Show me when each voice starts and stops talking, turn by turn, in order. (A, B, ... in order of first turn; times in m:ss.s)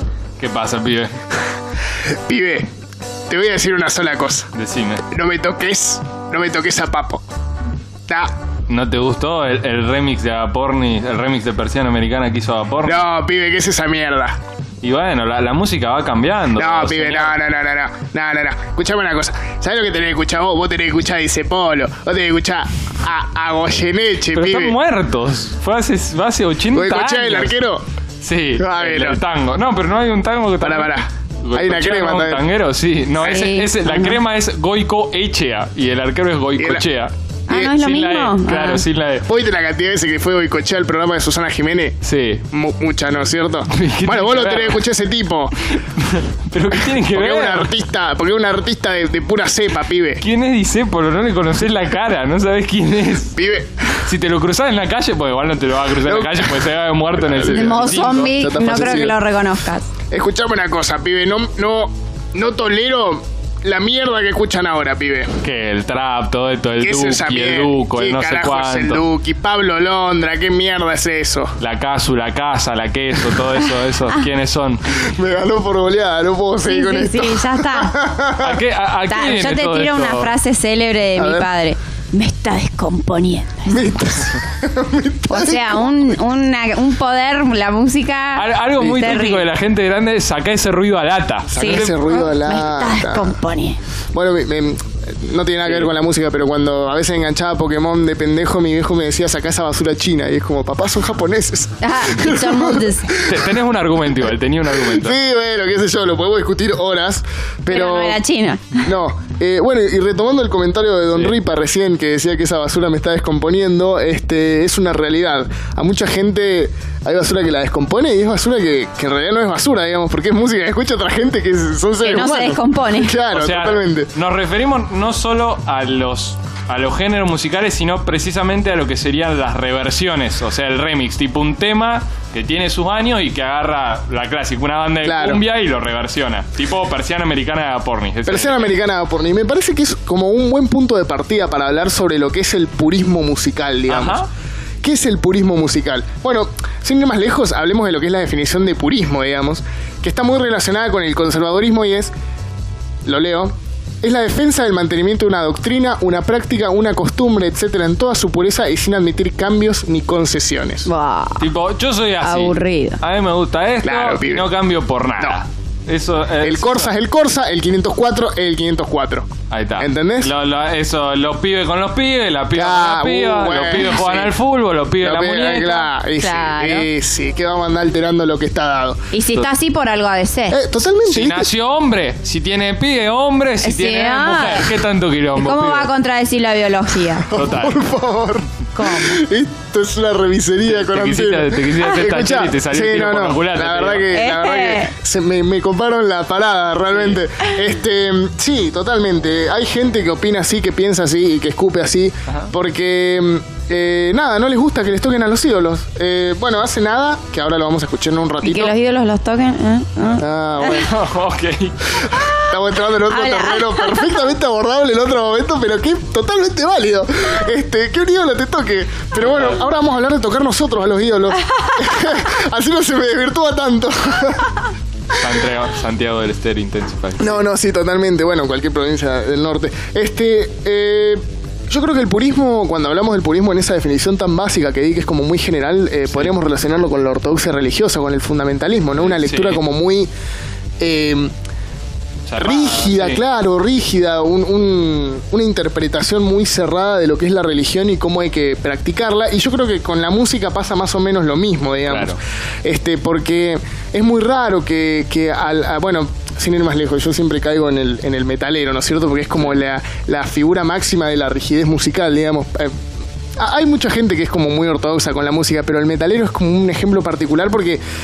0:00.4-0:01.2 A
0:02.1-0:02.7 B
0:03.3-0:04.5 B
0:04.5-0:05.0 A
0:05.1-0:07.2 B
0:08.7-0:13.0 A
0:12.8-0:14.4 B
0:14.8-0:17.4 A
0:16.6-0:24.8 B
0:24.4-0:27.5 A
0:26.7-0:27.8 B
0:28.2-0:37.1 A
0:28.6-0:29.2 B
0:30.6-0:32.4 B
0:33.2-0:34.2 C
0:36.6-0:36.8 B
0:37.5-0:38.8 C
0:37.7-0:39.2 A
0:39.2-0:42.0 B
0:42.0-0:42.4 A
0:42.5-0:45.7 B
0:43.7-0:44.8 A
0:45.7-0:47.7 A
0:47.0-0:50.2 B
0:50.2-0:53.3 A
0:53.3-0:53.9 B
0:54.0-0:58.3 A
0:56.0-0:56.7 B
0:57.2-0:59.2 B
0:57.4-0:59.9 C
1:00.1-1:05.4 B
1:05.4-1:09.0 A
1:06.8-1:11.6 B
1:11.6-1:14.8 A
1:15.0-1:18.6 B
1:16.6-1:17.9 C
1:18.4-1:20.3 A
1:19.1-1:24.0 C
1:21.2-1:21.5 B
1:23.7-1:26.2 B
1:25.3-1:29.4 C
1:28.4-1:32.0 A
1:31.5-1:33.3 B
1:31.6-1:33.8 C
1:34.1-1:43.5 B
1:41.8-1:43.2 C
1:43.2-1:45.2 A
1:44.8-1:48.2 B
1:47.7-1:48.8 C
1:48.8-2:04.1 B
2:02.0-2:03.2 C
2:03.3-2:18.8 A
2:15.0-2:15.4 B
2:18.3-2:24.2 B
2:23.9-2:24.3 A
2:24.8-2:32.1 B
2:33.0-2:40.9 B
2:40.9-2:41.5 C
2:41.4-2:46.9 A
2:42.2-2:43.0 C
2:43.8-2:44.5 B
2:46.4-2:50.3 B
2:49.5-2:55.9 A
2:52.6-2:54.4 B
2:55.0-2:59.0 B
2:56.1-2:56.9 C
2:59.1-3:00.6 C
3:00.5-3:01.5 B
3:01.1-3:05.9 A
3:03.6-3:04.7 C
3:05.3-3:07.3 C
3:07.2-3:28.7 B
3:07.3-3:07.8 A
3:08.8-3:09.2 C
3:10.7-3:14.1 A
3:14.1-3:14.9 C
3:16.9-3:17.2 A
3:28.4-3:30.9 C
3:30.2-3:30.9 B
3:30.6-3:31.9 A
3:32.1-3:32.5 C
3:32.4-3:44.7 B
3:33.1-3:34.2 C
3:45.2-3:47.4 A
3:47.2-4:00.1 B
3:59.0-3:59.6 A
4:00.8-4:01.3 B
4:02.3-4:03.2 A
4:02.4-4:22.8 B
4:11.9-4:12.2 A
4:23.4-4:27.8 B